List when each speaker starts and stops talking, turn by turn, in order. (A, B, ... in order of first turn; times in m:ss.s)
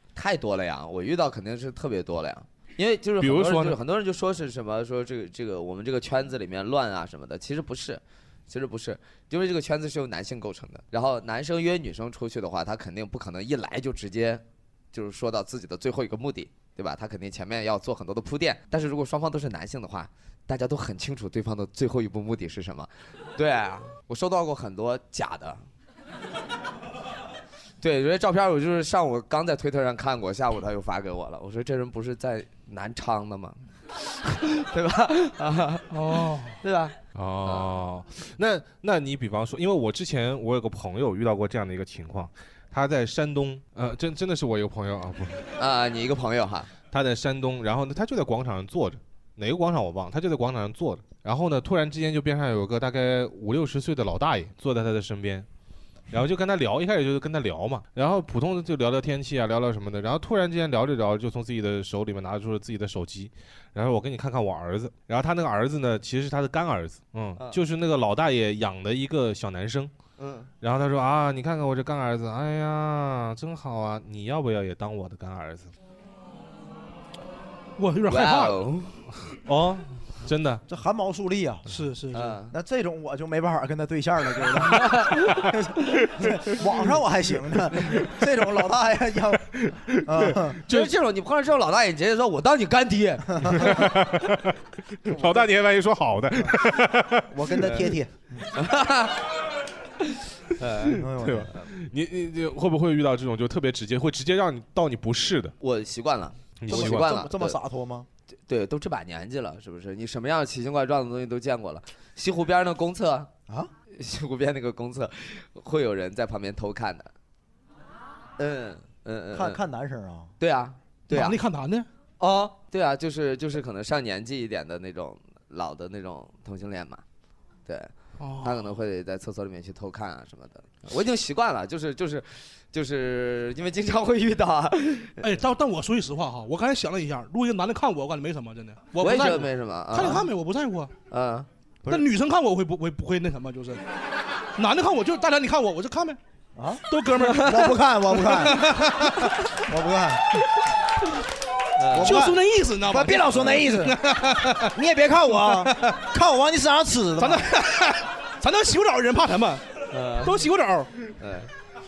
0:00.1-0:25.6 A
0:03.2-0:03.8 B
0:27.8-0:37.7 A
0:35.9-0:36.6 C
0:37.1-0:45.5 B
0:45.6-0:46.7 A
0:46.9-0:55.5 B
0:56.1-1:09.9 B
1:10.2-1:10.5 A
1:10.6-1:15.7 B
1:17.8-1:18.7 C
1:18.1-1:18.9 A
1:19.3-1:20.6 B
1:20.7-1:21.6 D
1:21.7-1:22.3 C
1:22.1-1:22.5 A
1:22.5-1:30.6 D
1:29.6-1:30.3 B
1:30.7-1:33.8 A
1:33.5-1:37.3 B
1:37.3-1:38.5 D
1:37.6-1:37.9 A
1:38.5-1:39.3 A
1:40.6-1:41.0 A
1:41.0-1:41.5 D
1:41.2-1:45.5 B
1:45.6-1:47.6 A
1:46.6-1:47.1 B
1:46.7-1:48.1 D
1:48.4-1:53.3 A
1:53.9-1:57.1 A
1:58.4-1:59.6 A
1:59.3-2:00.3 D
2:00.4-2:01.4 A
2:01.1-2:01.9 C
2:02.2-2:07.0 A
2:07.7-2:15.3 A
2:08.2-2:08.6 C
2:15.2-2:20.9 C
2:19.0-2:20.3 A
2:21.1-2:21.5 A
2:21.9-2:23.8 C
2:24.6-2:26.2 C
2:26.6-2:28.9 D
2:26.9-2:29.5 C
2:29.6-2:30.4 D
2:31.8-2:32.2 A
2:31.9-2:37.5 D
2:32.0-2:34.7 C
2:35.5-2:36.0 C
2:37.2-2:40.9 C
2:39.9-2:40.5 A
2:41.2-2:41.5 A